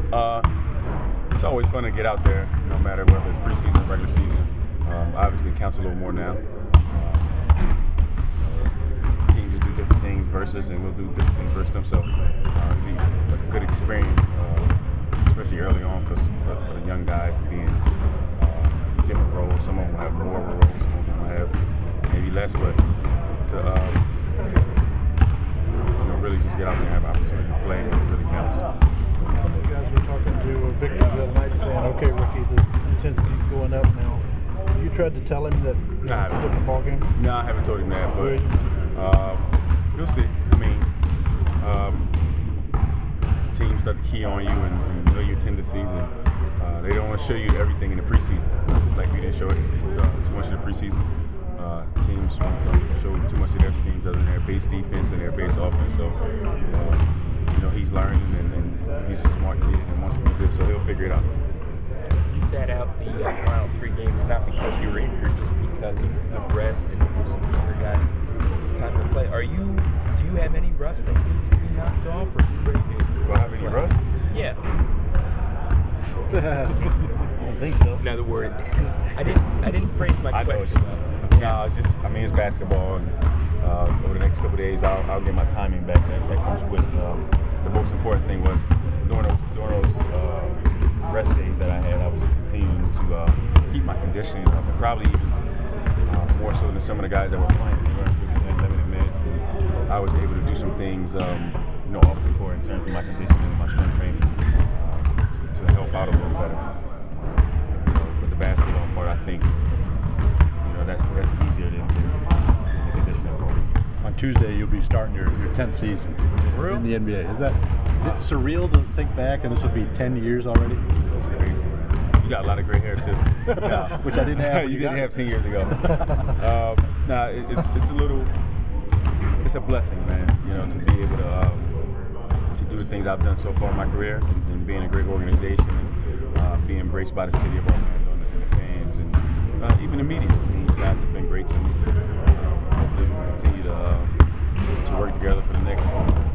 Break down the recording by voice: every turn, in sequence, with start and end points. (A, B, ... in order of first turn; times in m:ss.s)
0:00.1-0:00.5 A
0:01.3-0:07.4 A
0:08.4-0:17.8 A
0:18.4-0:21.6 A
0:22.1-0:22.8 A
0:23.4-0:24.1 A
0:26.0-0:28.6 A
0:29.2-0:37.2 B
0:36.0-0:40.9 A
0:38.2-0:38.6 B
0:41.6-0:42.1 A
0:43.5-1:01.3 A
1:02.3-1:08.1 C
1:08.7-1:14.6 C
1:13.2-1:14.1 A
1:16.3-1:18.0 D
1:18.0-1:21.6 C
1:20.3-1:35.4 A
1:36.0-1:49.6 A
1:50.6-1:53.6 A
1:54.0-2:00.8 D
1:56.4-1:56.9 A
2:01.2-2:08.3 A
2:03.5-2:05.1 D
2:05.7-2:06.3 D
2:09.4-2:11.8 A
2:12.5-2:24.2 A
2:24.8-2:26.1 A